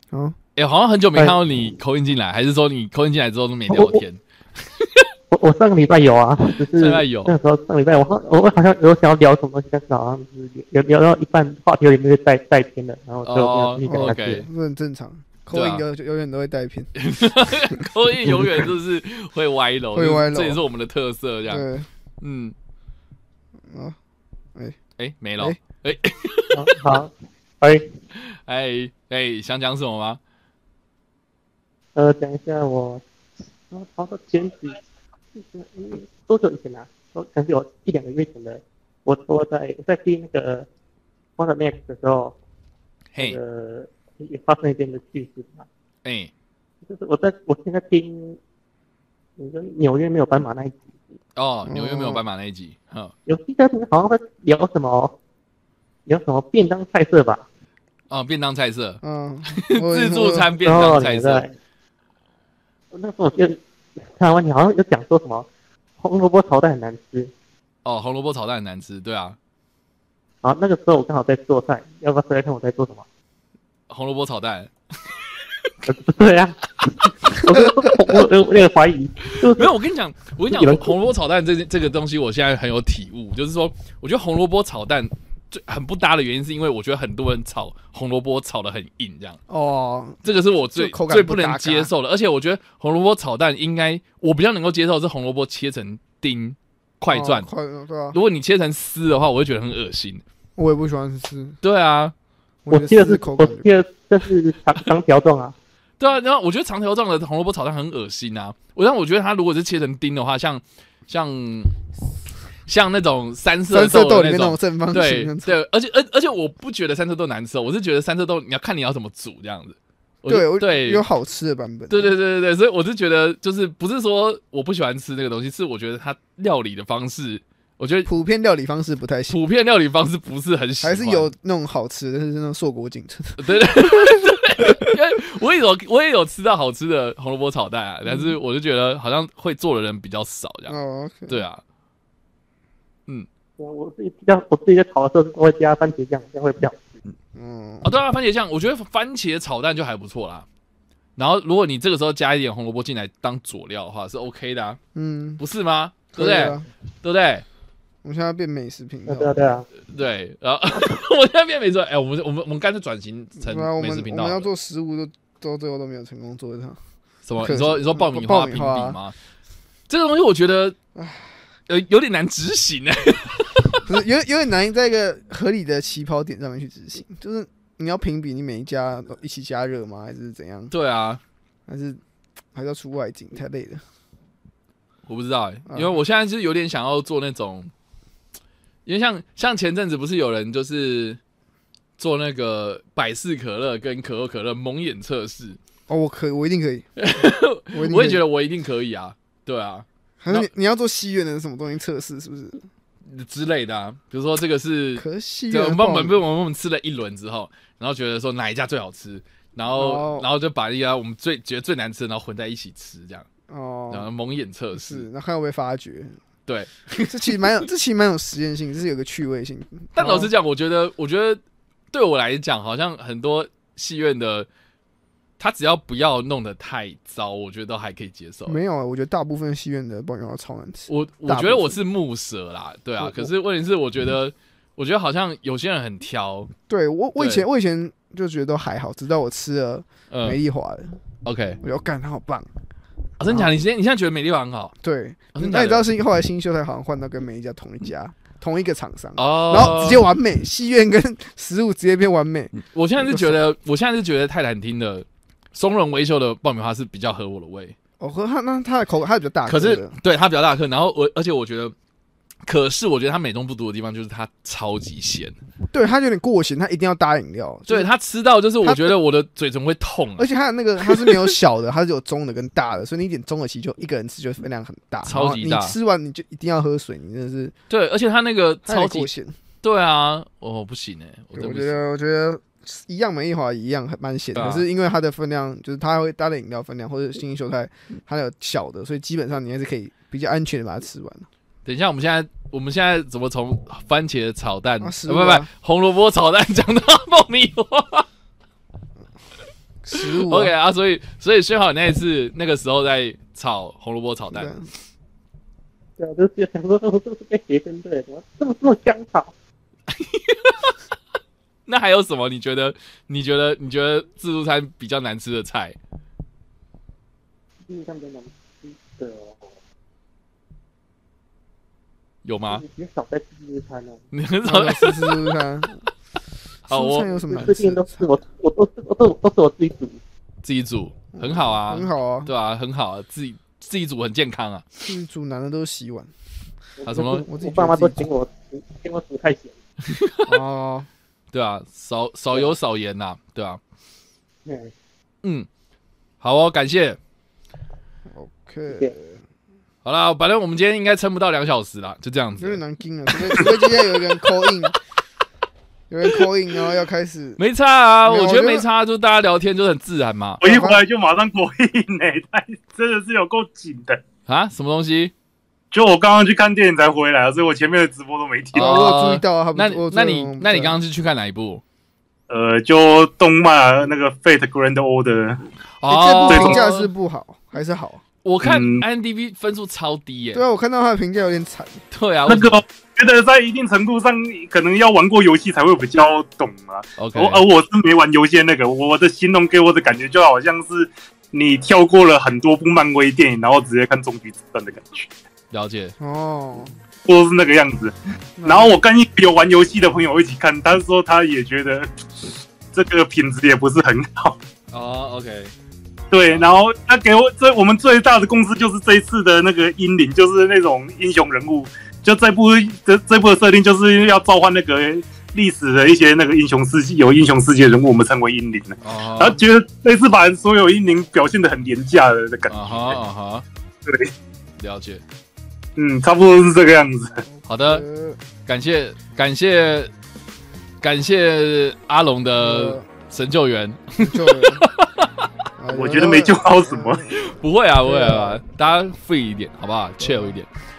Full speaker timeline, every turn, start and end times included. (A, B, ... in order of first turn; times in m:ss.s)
0:00.1-0:00.4 A
0:00.6-0:05.1 B
0:03.7-0:04.0 C
0:05.3-0:14.4 C
0:06.7-0:07.3 B
0:13.2-0:14.5 B
0:13.9-0:16.9 A
0:15.5-0:15.8 B
0:17.0-0:21.7 B
0:17.7-0:18.7 A
0:19.9-0:20.6 A
0:21.5-0:21.9 A
0:22.2-0:22.6 B
0:23.7-0:24.0 A
0:25.0-0:26.8 B
0:26.5-0:27.9 C
0:28.2-0:30.2 B
0:32.0-0:33.0 C
0:33.7-0:34.8 C
0:35.4-0:40.7 C
0:41.4-0:42.4 C
0:43.1-0:43.4 B
0:43.2-0:45.7 C
0:46.0-0:46.3 B
0:46.8-0:48.4 C
0:49.4-0:50.9 C
0:51.4-0:53.1 B
0:51.6-0:52.2 A
0:53.3-0:55.2 C
0:56.1-0:57.4 C
0:58.1-1:01.5 B
0:59.0-1:00.6 A
1:00.6-1:01.6 C
1:02.9-1:05.5 C
1:06.0-1:07.3 C
1:07.8-1:09.4 B
1:10.4-1:13.0 C
1:13.9-1:14.7 B
1:15.4-1:15.7 B
1:15.9-1:19.7 C
1:19.3-1:29.4 B
1:20.5-1:20.9 C
1:29.5-1:31.9 A
1:30.2-1:37.5 B
1:37.1-1:38.2 A
1:38.1-1:40.2 B
1:40.6-1:41.6 A
1:41.6-1:42.1 B
1:42.7-1:43.7 A
1:42.7-1:45.6 C
1:46.0-1:51.8 B
1:52.7-2:01.0 B
1:53.7-1:55.6 A
2:00.3-2:02.1 A
2:01.9-2:08.1 B
2:08.1-2:09.4 A
2:09.3-2:11.3 B
2:10.8-2:13.9 A
2:13.4-2:20.8 B
2:18.1-2:18.3 A
2:20.7-2:21.4 A
2:21.3-2:21.6 B
2:23.6-2:26.9 C
2:27.4-2:27.9 A
2:27.8-2:30.5 B
2:31.2-2:34.8 B
2:34.9-2:35.4 A
2:35.4-2:37.4 B
2:36.1-2:36.7 A
2:38.0-2:39.4 A
2:39.1-2:39.7 C
2:39.8-2:44.5 B
2:43.4-2:46.8 A
2:47.2-2:49.2 B
2:47.4-2:49.0 A
2:49.9-2:50.8 B
2:51.0-2:51.3 A
2:51.7-2:53.8 B
2:53.8-3:00.7 A
3:00.7-3:01.2 B
3:01.7-3:02.0 A
3:02.5-3:03.8 A
3:05.1-3:07.7 B
3:05.7-3:06.0 A
3:08.9-3:11.2 B
3:12.0-3:15.6 B
3:15.9-3:18.2 A
3:17.0-3:20.5 B
3:20.2-3:22.7 A
3:23.0-3:33.3 B
3:25.0-3:26.2 A
3:29.8-3:30.3 A
3:33.5-3:34.1 A
3:33.9-3:35.1 B
3:34.8-3:36.2 A
3:36.5-3:37.4 B
3:37.1-3:40.3 A
3:40.0-3:44.5 B
3:45.4-3:48.6 B
3:48.5-3:51.8 A
3:50.9-3:56.5 B
3:53.0-3:53.3 A
3:56.7-4:01.0 A
3:57.2-3:57.4 B
4:00.1-4:00.4 B
4:01.2-4:01.6 B
4:01.6-4:02.5 A
4:03.2-4:04.7 B
4:04.8-4:13.4 A
4:05.4-4:05.9 B
4:09.2-4:10.1 B
4:12.6-4:17.8 B
4:18.0-4:20.0 A
4:19.5-4:21.7 B
4:22.5-4:25.4 B
4:25.7-4:27.9 A
4:27.7-4:30.3 B
4:28.6-4:29.0 A
4:30.2-4:37.6 A
4:30.8-4:31.2 B
4:35.0-4:35.8 B
4:37.7-4:39.1 B
4:38.7-4:39.4 A
4:39.6-4:41.8 B
4:41.4-4:51.3 A
4:44.4-4:44.6 B
4:51.6-4:58.1 B
4:54.8-4:55.5 A
4:59.8-5:00.5 A
4:59.9-5:04.5 B
5:04.3-5:04.7 A
5:06.0-5:09.3 C
5:09.9-5:10.8 B
5:11.7-5:15.8 B
5:17.7-5:19.4 C
5:22.2-5:22.6 B
5:22.5-5:24.0 C
5:24.1-5:25.4 B
5:24.4-5:25.9 A
5:26.7-5:27.1 B
5:26.7-5:28.1 A
5:27.1-5:30.0 C
5:30.4-5:34.8 B
5:31.1-5:32.3 A
5:34.9-5:36.1 A
5:36.8-5:39.6 C
5:36.8-5:37.3 B
5:37.3-5:38.1 A
5:39.9-5:40.3 B
5:40.3-5:40.9 A
5:41.3-5:43.6 B
5:44.4-5:44.7 C
5:45.2-5:45.5 B
5:46.2-5:47.0 B
5:48.1-5:49.2 A
5:49.8-5:52.6 B
5:52.4-5:54.8 A
5:55.9-5:57.4 A
5:57.4-6:00.4 B
5:58.0-5:58.7 A
6:00.4-6:04.0 D
6:00.4-6:00.8 A
6:04.3-6:05.1 B
6:05.7-6:08.9 D
6:08.5-6:10.8 A
6:08.5-6:11.6 B
6:12.3-6:15.5 D
6:15.8-6:16.9 B
6:15.9-6:18.0 A
6:16.3-6:16.6 D
6:18.2-6:20.4 B
6:18.4-6:18.8 D
6:20.3-6:21.8 A
6:21.9-6:22.6 B
6:22.3-6:35.1 D
6:27.0-6:27.4 B
6:35.5-6:36.0 B
6:36.0-6:36.8 A
6:37.1-6:44.4 D
6:38.4-6:38.8 A
6:44.7-6:45.5 B
6:46.1-7:03.0 D
6:58.8-6:59.4 B
7:02.5-7:03.5 B
7:03.8-7:04.1 D
7:04.6-7:05.0 B
7:05.8-7:07.2 D
7:07.3-7:08.2 A
7:07.5-7:07.8 B
7:08.5-7:09.9 B
7:10.8-7:15.3 B
7:12.4-7:12.9 A
7:14.0-7:14.7 A
7:15.6-7:17.2 A
7:15.7-7:17.0 D
7:17.1-7:20.5 B
7:17.8-7:18.4 A
7:20.0-7:20.4 A